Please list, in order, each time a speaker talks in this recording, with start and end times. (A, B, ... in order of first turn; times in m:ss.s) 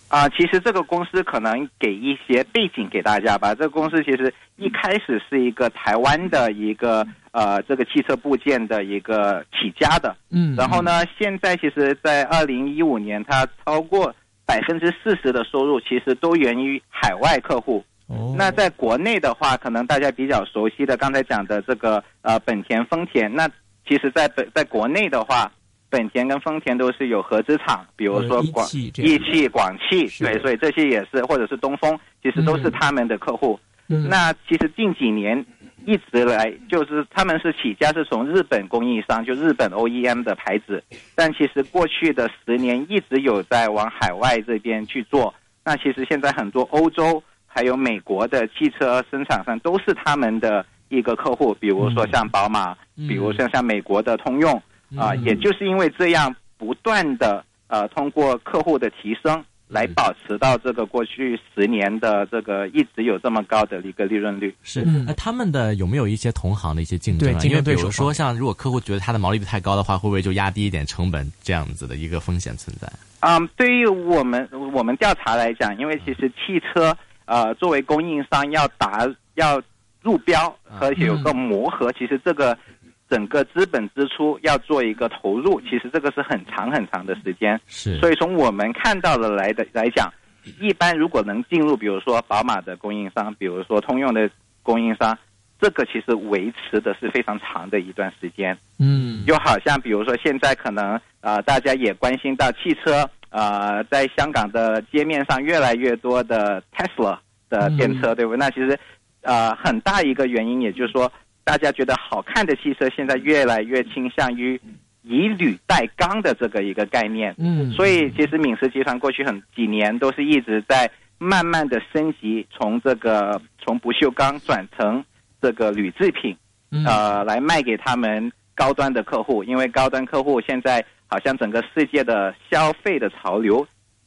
0:00.1-1:04.6 A
0:10.3-0:10.9 B
0:18.1-0:18.6 B
0:28.1-0:29.2 B
0:30.1-0:30.4 B
0:32.4-0:32.7 B
0:53.0-0:53.4 C
0:54.9-0:55.2 C
0:55.0-0:55.3 B
1:04.6-1:13.0 C
1:04.8-1:05.1 B
1:07.1-1:08.2 B
1:13.2-1:38.6 A
1:27.7-1:28.1 C
1:38.8-1:39.3 B
1:39.2-2:13.7 A
1:57.4-1:57.7 B